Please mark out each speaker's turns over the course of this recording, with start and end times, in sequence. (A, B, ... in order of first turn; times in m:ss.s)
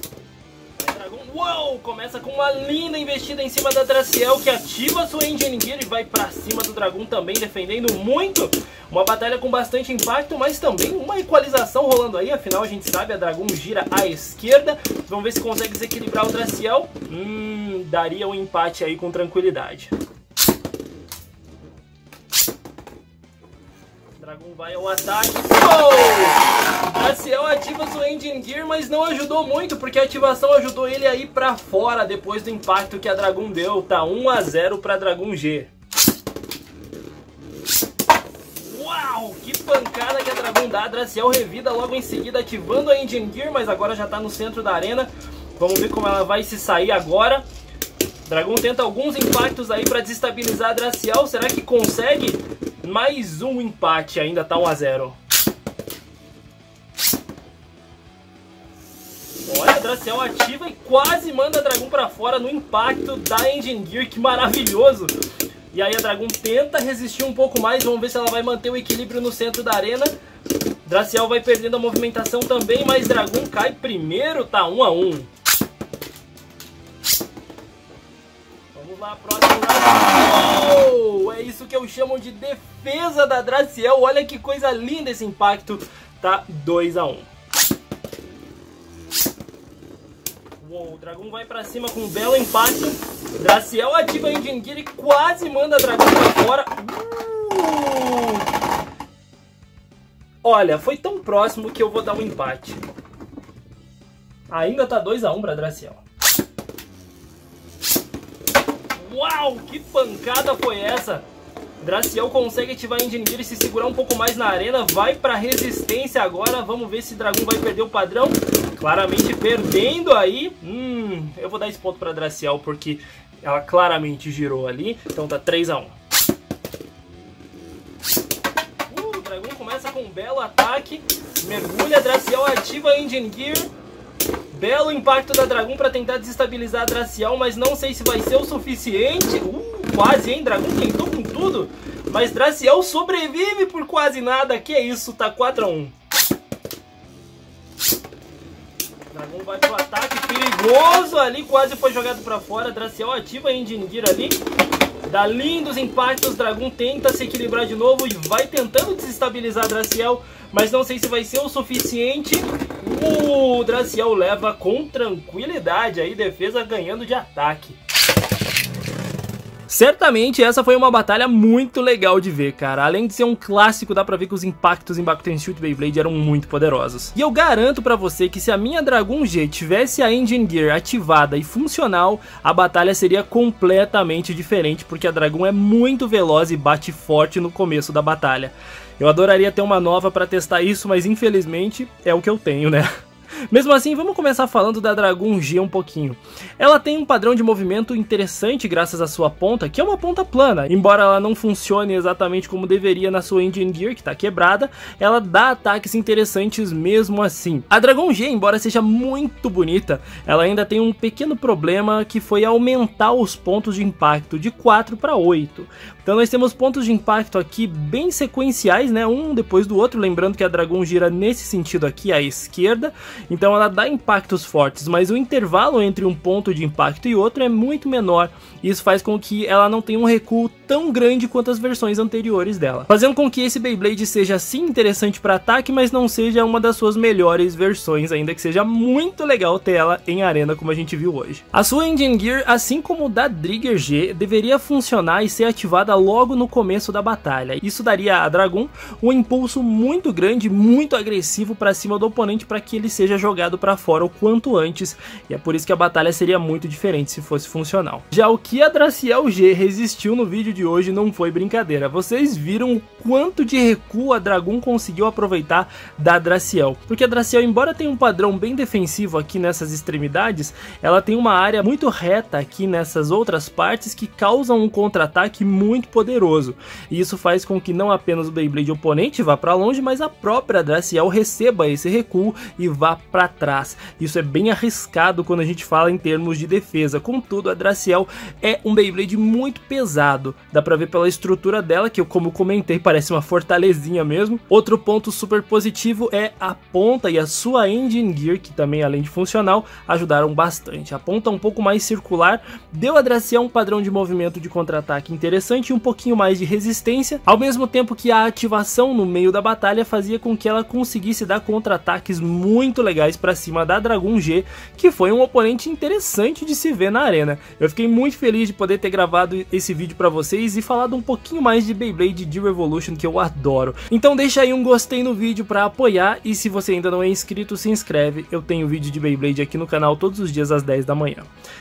0:00.8-0:19.9 A
0:24.2-0:35.7 A
0:38.6-0:47.4 A
0:48.2-0:55.2 A
0:59.4-1:05.1 A
1:05.7-1:10.1 A
1:10.8-1:15.3 A
1:18.7-1:27.3 A
1:30.6-1:38.5 A
1:40.4-1:42.8 A
1:44.5-1:46.0 A
1:48.9-1:51.2 A
1:51.8-2:06.0 A
2:08.9-2:13.7 A
2:14.5-2:25.9 A
2:29.1-2:34.4 A
2:35.0-2:47.8 A
2:49.7-3:12.9 A
3:13.5-5:31.3 A